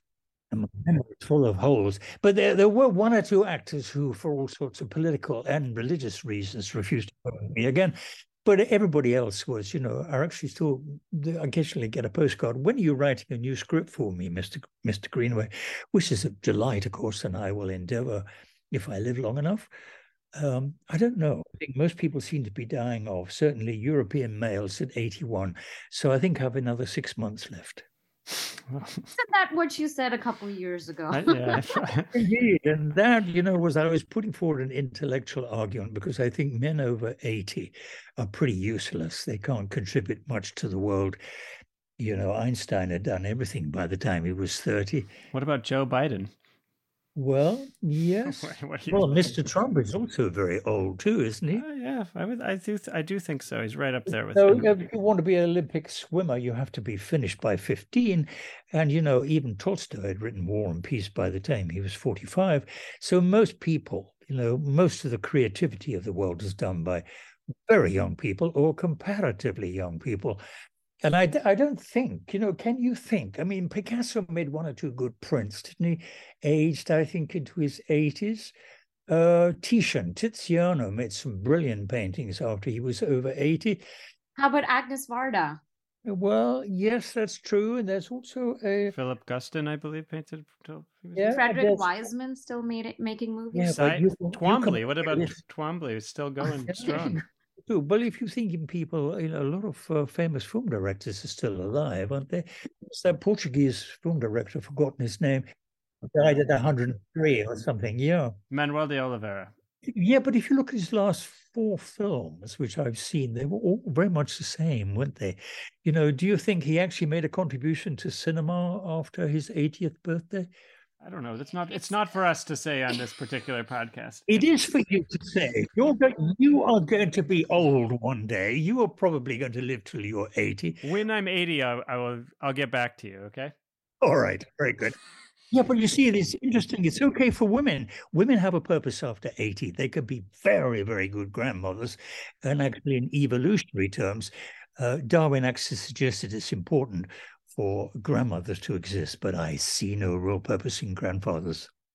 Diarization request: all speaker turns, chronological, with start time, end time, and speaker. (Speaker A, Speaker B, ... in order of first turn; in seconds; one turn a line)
Speaker A: 0.5-19.7
Speaker A: 20.3-27.8
Speaker B: 28.7-29.0
Speaker C: 29.1-31.6
Speaker B: 31.1-32.1
Speaker A: 32.1-41.2
Speaker A: 42.0-45.1
Speaker B: 45.3-46.3
Speaker A: 47.2-51.6
Speaker B: 48.2-49.4
Speaker B: 51.5-54.7
Speaker A: 54.3-67.0
Speaker A: 67.7-70.4
Speaker A: 71.0-78.5
Speaker A: 79.1-83.8
Speaker C: 84.4-85.6
Speaker A: 86.0-88.9
Speaker B: 88.9-91.3
Speaker A: 91.1-92.0
Speaker C: 91.2-93.8
Speaker A: 93.5-95.4
Speaker B: 93.7-97.2
Speaker A: 96.5-105.5
Speaker A: 106.0-108.4
Speaker B: 108.5-109.5
Speaker A: 109.8-120.5
Speaker B: 121.0-124.3
Speaker A: 124.3-130.8
Speaker B: 130.8-133.5
Speaker A: 134.0-135.0
Speaker A: 135.5-151.7